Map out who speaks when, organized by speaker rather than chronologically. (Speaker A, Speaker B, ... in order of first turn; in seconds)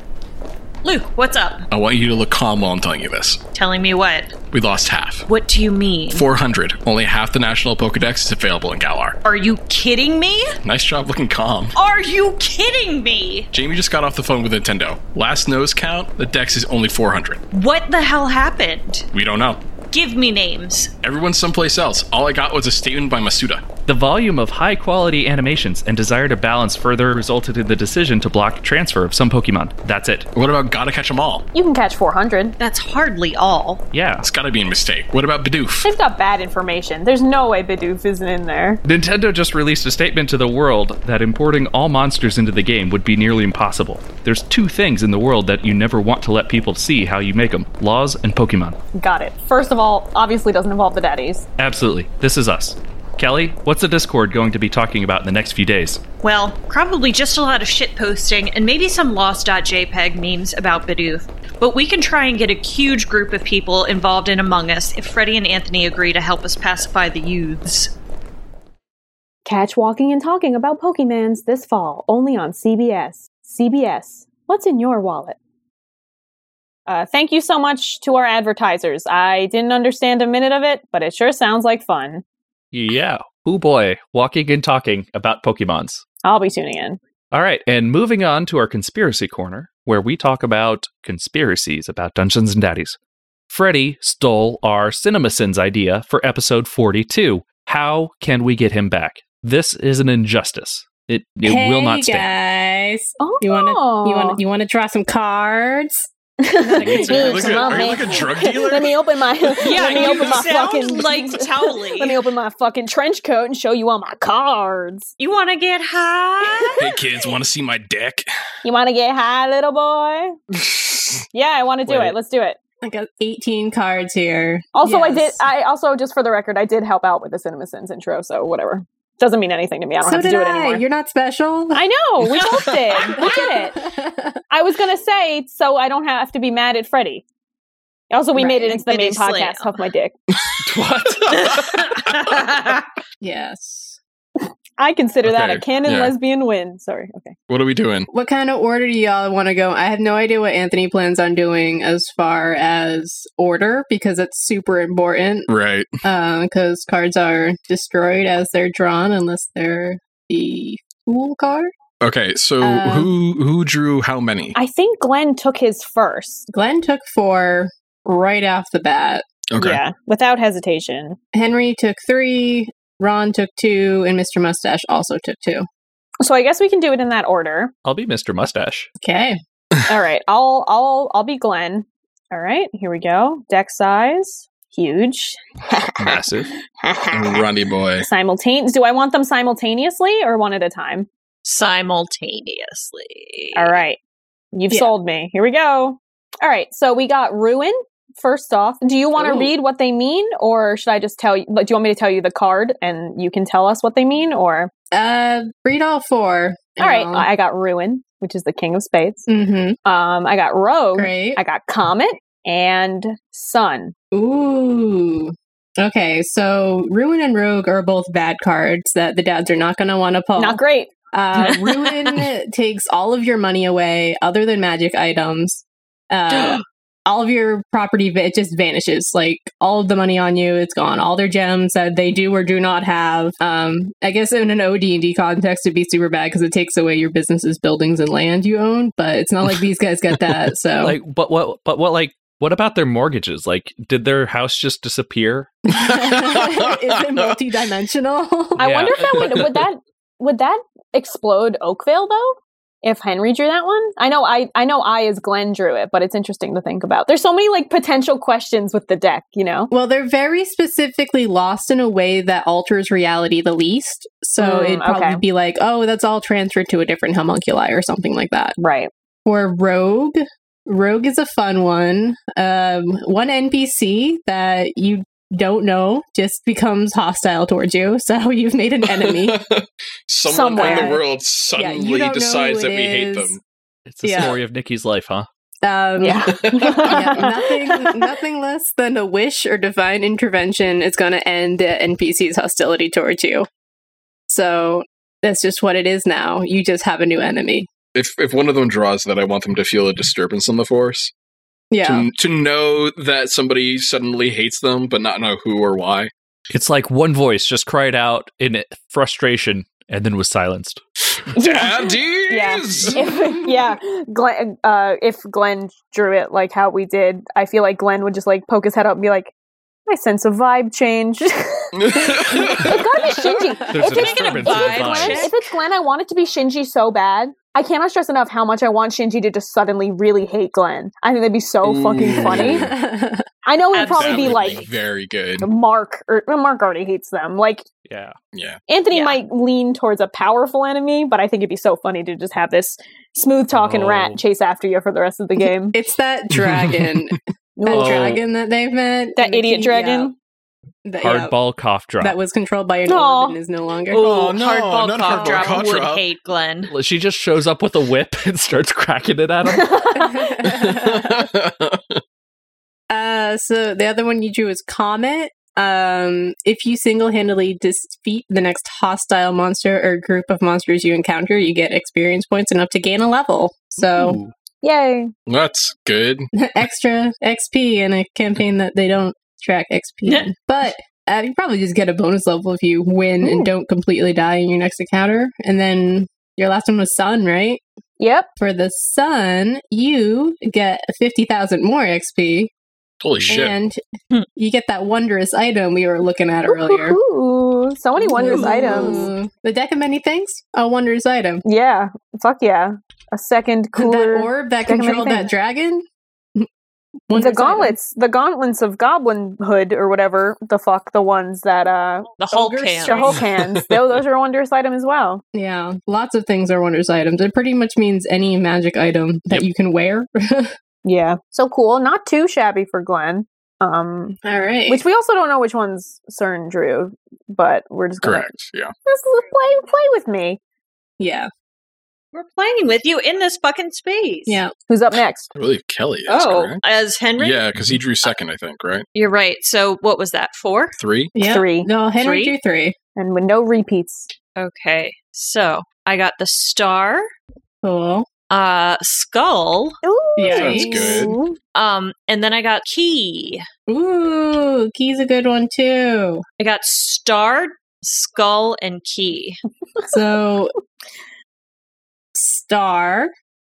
Speaker A: 0.8-1.6, 3.5-4.3, 5.3-6.3, 9.2-10.6, 11.8-13.5, 17.5-19.1, 19.9-20.9, 32.6-33.8, 56.2-67.9, 109.6-112.2, 115.2-116.8, 132.3-133.5, 138.4-139.9, 141.4-142.8, 191.4-193.8, 226.3-226.6, 323.8-325.5, 333.7-334.7, 338.9-339.2, 353.9-356.7, 398.3-398.9, 412.2-413.2, 432.1-434.4, 436.1-437.4, 438.9-440.8, 441.9-442.4, 444.4-447.1, 448.3-449.8, 451.6-453.4, 456.4-459.4
Speaker B: 1.7-3.4, 4.5-5.2, 6.1-9.2, 10.6-11.8, 13.5-17.4, 19.1-19.6, 21.0-23.6, 30.4-31.4, 34.2-35.9, 106.8-109.0, 109.8-110.3, 116.8-118.3, 141.3-141.8, 145.2-146.2, 147.5-148.1, 155.5-155.9, 162.0-164.6, 169.5-169.8, 187.1-188.1, 245.9-247.1, 278.9-283.4, 286.3-287.3, 297.9-301.1, 301.8-306.1, 311.1-313.7, 321.7-323.5, 331.6-332.7, 333.8-335.5, 338.3-338.6, 346.3-346.9, 353.9-356.0, 360.4-362.0, 375.3-376.3, 393.0-393.6, 413.5-413.8, 428.0-428.7, 435.3-436.6, 437.2-438.9, 440.8-441.1, 450.2-451.1
Speaker C: 23.9-30.3, 33.9-34.3, 38.9-48.8, 51.6-56.0, 82.7-86.0, 87.3-93.0, 93.5-102.3, 106.8-107.8, 121.9-122.2, 140.6-141.7, 177.8-178.9, 186.0-186.5, 240.8-245.5, 248.6-249.5, 283.9-285.3, 306.5-310.8, 323.7-325.3, 337.9-338.1, 343.5-344.2, 347.7-348.2, 351.0-352.2, 356.7-359.9, 374.0-374.3
Speaker D: 31.5-32.6, 35.8-38.8, 48.9-51.5, 69.4-75.4, 76.9-82.2, 86.2-87.0, 103.2-104.4, 106.4-115.1, 116.5-117.1, 118.6-120.4, 121.3-122.6, 124.8-130.8, 131.7-133.8, 134.5-137.2, 138.1-140.1, 144.8-147.4, 164.6-166.4, 169.6-171.2, 176.2-177.7, 179.9-185.4, 188.0-191.1, 193.6-194.0, 194.5-204.7, 206.8-209.2, 209.8-213.9, 220.4-221.6, 248.6-259.7, 264.4-265.2, 268.6-268.9, 280.3-281.1, 286.0-288.1, 311.4-319.3, 319.9-332.6, 333.4-334.6, 335.4-337.6, 338.7-345.8, 347.6-348.1, 349.1-350.1, 352.9-353.4, 359.4-360.4, 374.6-375.1, 383.2-383.5, 388.0-388.3, 396.5-399.1, 401.4-405.3, 407.1-415.2, 420.9-428.3, 428.9-430.4, 434.7-435.3, 441.2-441.7, 442.9-444.1, 449.8-451.4
Speaker E: 101.4-106.1, 122.8-125.4, 130.0-131.9, 133.0-134.4, 143.2-144.0, 148.1-155.5, 156.0-161.7, 162.6-163.1, 166.5-169.2, 171.3-175.7, 179.0-179.4, 199.2-199.5, 204.9-207.3, 209.3-209.8, 210.9-211.4, 214.1-220.6, 221.1-241.0, 245.7-248.7, 259.7-268.6, 269.2-279.4, 280.6-281.0, 281.6-283.3, 284.0-284.4, 285.6-293.5, 294.3-297.7, 301.7-302.1, 332.0-333.3, 345.4-350.1, 350.9-351.4, 352.0-354.2, 355.1-355.7, 359.9-361.3, 362.9-374.2, 376.3-387.6, 388.4-392.5, 393.3-393.8, 394.4-397.0, 398.1-401.4, 403.8-405.9, 407.1-407.8, 412.6-413.1, 415.3-420.5, 424.2-424.9, 431.0-431.3, 434.3-434.5, 441.1-442.8, 447.6-448.1, 450.2-451.2, 453.7-456.2, 459.9-460.5, 462.1-463.1